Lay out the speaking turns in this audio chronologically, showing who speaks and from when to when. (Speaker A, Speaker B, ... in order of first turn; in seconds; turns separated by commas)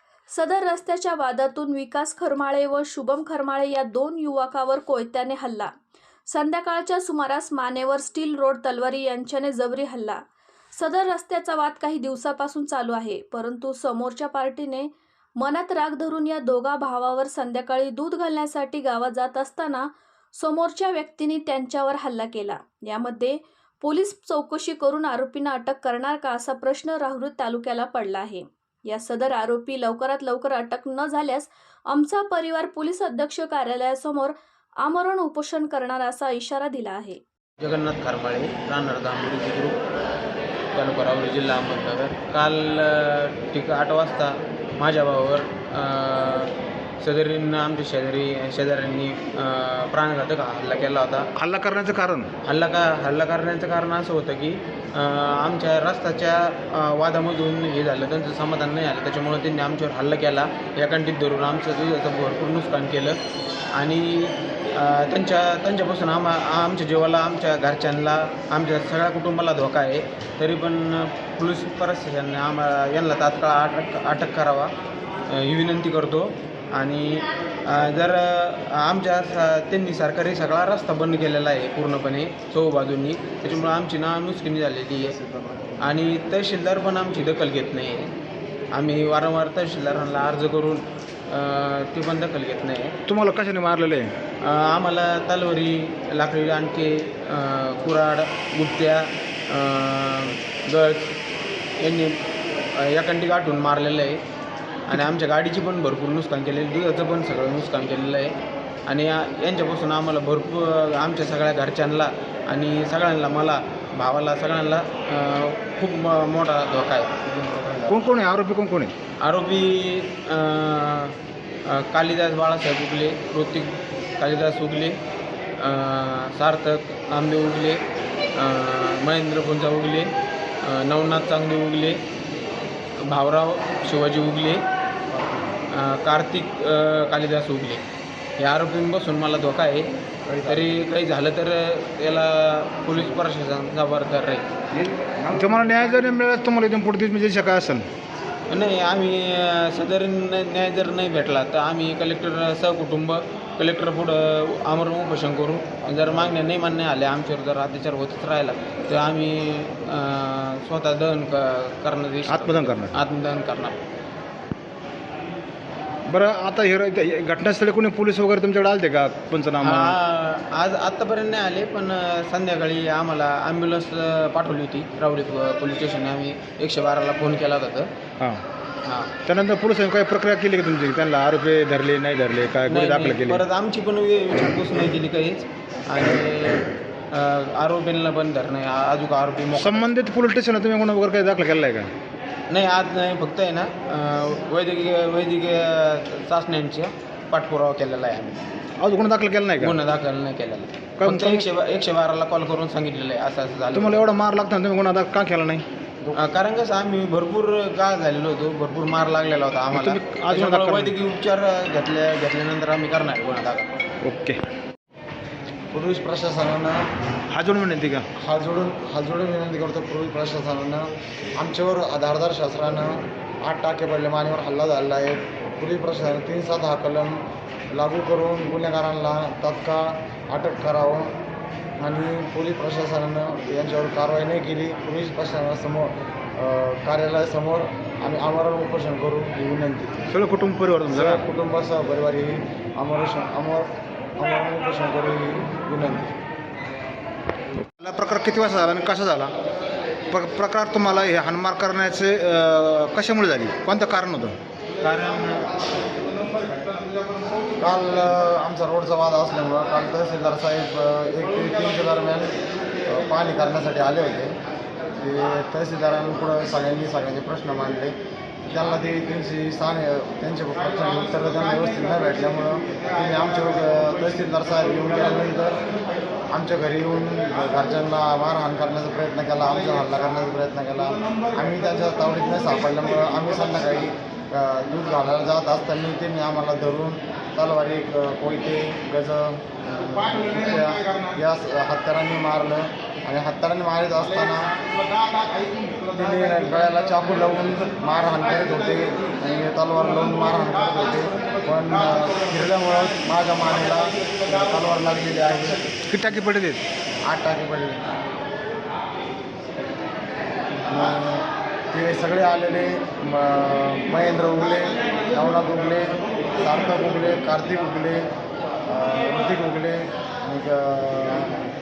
Speaker A: 0.3-5.7, Speaker A: 6.3-10.2, Speaker A: 10.7-37.2, Speaker B: 37.6-39.8, Speaker B: 40.7-51.3, Speaker C: 51.4-52.3, Speaker B: 52.4-63.2, Speaker B: 63.7-74.7, Speaker B: 75.3-85.2, Speaker B: 85.8-88.1, Speaker B: 88.7-92.9, Speaker C: 93.1-94.1, Speaker B: 94.4-101.2, Speaker B: 101.8-102.2, Speaker B: 102.7-104.2, Speaker B: 104.9-117.2, Speaker D: 117.3-118.0, Speaker C: 117.9-118.9, Speaker B: 119.2-121.1, Speaker B: 121.7-125.0, Speaker B: 125.6-127.8, Speaker B: 128.3-130.1, Speaker B: 130.6-132.0, Speaker B: 133.0-134.6, Speaker B: 135.7-137.8, Speaker B: 138.4-139.9, Speaker D: 140.3-140.7, Speaker B: 140.4-144.4, Speaker C: 145.3-147.9, Speaker B: 148.5-163.8, Speaker C: 162.3-162.9, Speaker C: 166.1-169.9, Speaker B: 169.6-177.9, Speaker B: 178.8-179.1, Speaker C: 179.2-183.4, Speaker B: 182.7-189.9, Speaker C: 189.5-191.9, Speaker B: 192.5-198.4, Speaker C: 198.8-199.7, Speaker B: 199.6-204.1, Speaker C: 201.0-201.5, Speaker C: 203.7-205.6, Speaker B: 206.1-213.7, Speaker C: 209.7-211.0, Speaker C: 214.0-214.4, Speaker D: 215.7-216.8, Speaker C: 217.3-218.0, Speaker D: 218.2-231.1, Speaker D: 231.8-240.1, Speaker C: 240.1-241.2, Speaker D: 240.9-246.1, Speaker C: 247.8-249.3, Speaker C: 250.1-254.3, Speaker B: 254.8-255.5, Speaker D: 257.6-262.3, Speaker D: 262.9-264.3, Speaker D: 265.0-267.9, Speaker D: 268.5-275.6, Speaker D: 276.3-294.5, Speaker D: 295.7-305.6, Speaker C: 305.9-306.6, Speaker D: 307.0-307.8, Speaker D: 310.6-318.0, Speaker D: 318.6-321.4